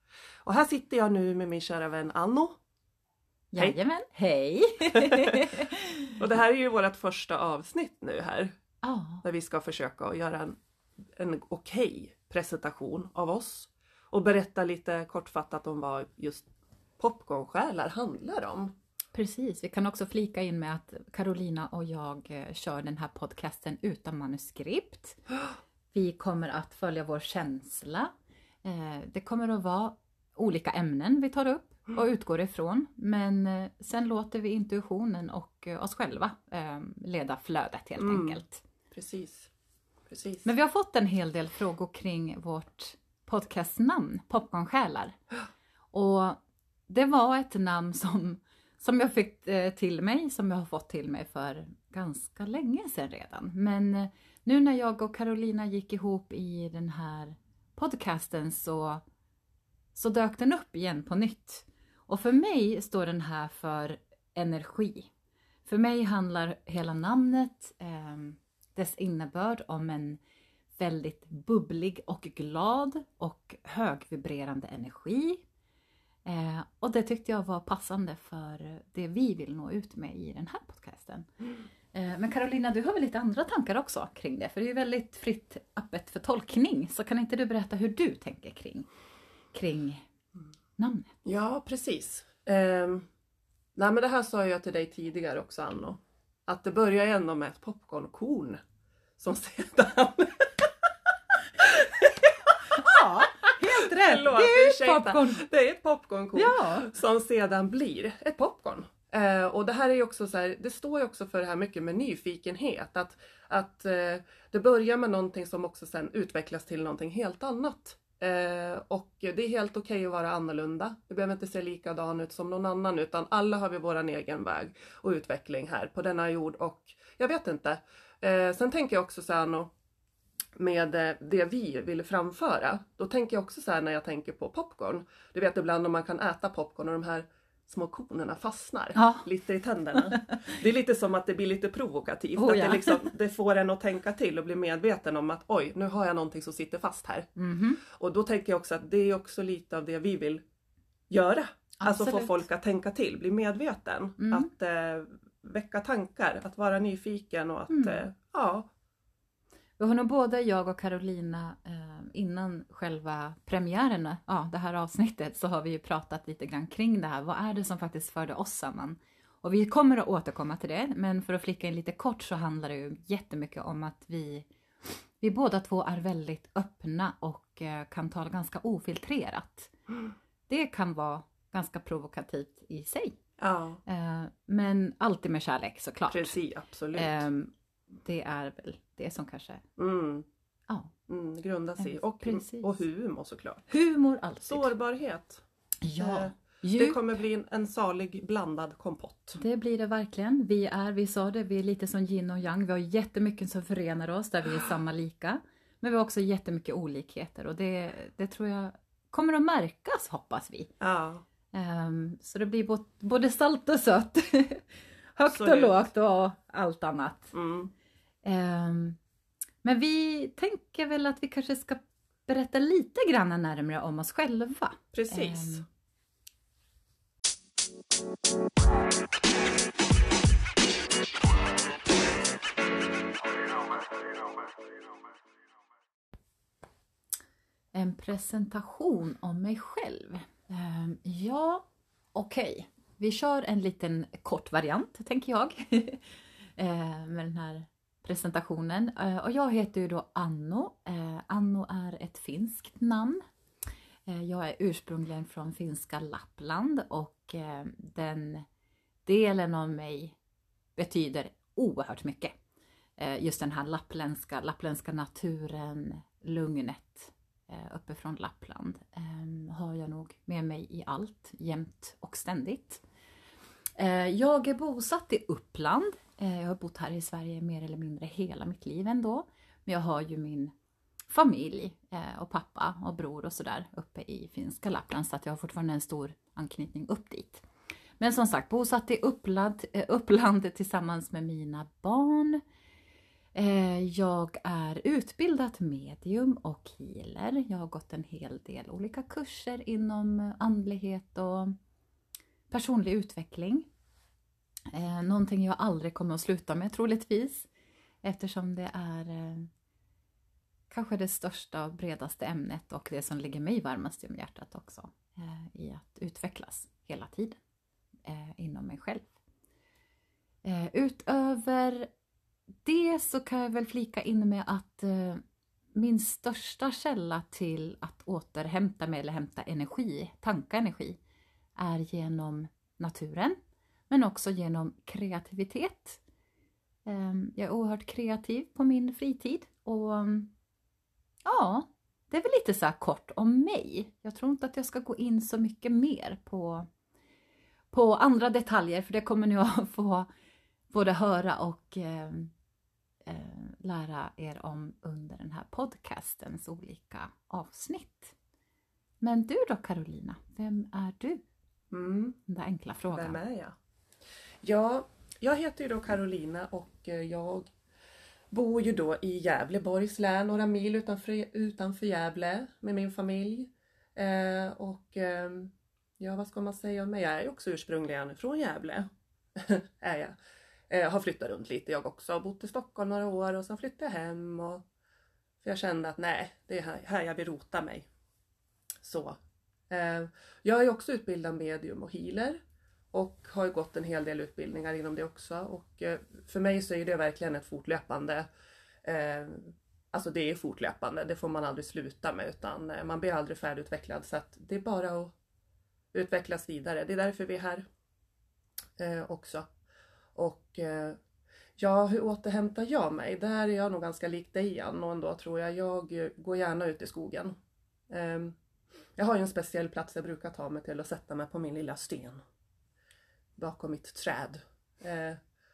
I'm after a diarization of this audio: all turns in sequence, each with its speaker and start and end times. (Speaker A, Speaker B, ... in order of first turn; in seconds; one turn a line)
Speaker A: 0.4-2.5
Speaker B: 3.5-6.1
Speaker A: 5.0-5.5
Speaker A: 6.2-8.5
Speaker B: 8.8-9.2
Speaker A: 9.2-10.6
Speaker A: 11.2-16.5
Speaker A: 17.0-18.7
Speaker B: 19.1-25.2
Speaker B: 25.9-28.1
Speaker B: 28.6-38.6
Speaker A: 38.0-39.5
Speaker A: 40.1-40.5
Speaker B: 40.5-45.2
Speaker B: 45.9-59.0
Speaker B: 60.0-65.1
Speaker B: 65.7-70.2
Speaker B: 70.8-75.4
Speaker B: 76.2-81.3
Speaker B: 81.9-88.9
Speaker B: 89.5-90.1
Speaker B: 90.8-91.1
Speaker A: 91.2-93.1
Speaker A: 93.8-98.6
Speaker A: 99.2-100.9
Speaker A: 101.6-102.3
Speaker B: 102.7-105.5
Speaker A: 103.5-129.7
Speaker B: 106.3-106.9
Speaker A: 130.6-147.3
Speaker B: 139.0-139.3
Speaker B: 140.0-140.4
Speaker B: 142.4-143.1
Speaker B: 147.4-147.8
Speaker A: 147.9-150.4
Speaker A: 151.1-158.7
Speaker B: 151.8-152.4
Speaker B: 154.2-154.5
Speaker B: 157.7-158.1
Speaker B: 159.8-174.5
Speaker B: 175.2-179.7
Speaker B: 180.5-183.2
Speaker A: 183.4-183.8
Speaker B: 183.9-186.4
Speaker A: 186.1-187.3
Speaker B: 186.9-187.5
Speaker B: 188.0-189.6
Speaker A: 189.8-190.3
Speaker A: 191.1-193.7
Speaker B: 191.8-192.8
Speaker B: 193.7-194.7
Speaker A: 194.5-195.4
Speaker B: 195.8-197.2
Speaker A: 196.0-199.4
Speaker B: 199.4-210.7
Speaker A: 210.8-211.2
Speaker B: 211.5-217.3
Speaker A: 215.3-215.9
Speaker A: 217.3-217.7
Speaker B: 218.2-219.0
Speaker B: 219.6-225.7
Speaker A: 224.9-225.7
Speaker B: 237.7-253.2
Speaker B: 254.1-258.5
Speaker B: 259.1-260.2
Speaker B: 260.8-262.3
Speaker B: 263.0-272.8
Speaker B: 273.8-280.5
Speaker B: 281.1-287.4
Speaker B: 288.0-292.4
Speaker B: 293.3-301.6
Speaker B: 302.5-303.7
Speaker B: 304.7-307.5
Speaker B: 308.0-309.5
Speaker B: 310.7-317.4
Speaker B: 318.1-319.1
Speaker B: 320.4-321.9
Speaker B: 322.6-325.2
Speaker B: 325.7-331.0
Speaker B: 331.6-333.4
Speaker B: 333.9-336.0
Speaker B: 336.9-340.3
Speaker B: 341.2-346.7
Speaker B: 347.7-350.1
Speaker B: 350.7-352.3
Speaker B: 353.1-358.1
Speaker B: 359.0-361.2
Speaker A: 361.7-362.2
Speaker B: 362.3-363.2
Speaker A: 362.9-363.5
Speaker A: 364.4-367.5
Speaker A: 368.3-380.1
Speaker A: 380.7-384.6
Speaker A: 385.4-387.9
Speaker A: 388.8-389.2
Speaker A: 389.7-392.4
Speaker A: 392.9-398.3
Speaker A: 398.8-405.1
Speaker A: 405.9-407.6
Speaker A: 408.8-409.5
Speaker A: 410.1-411.0
Speaker A: 411.6-417.4
Speaker A: 417.9-418.4
Speaker A: 419.0-422.2
Speaker A: 423.4-425.2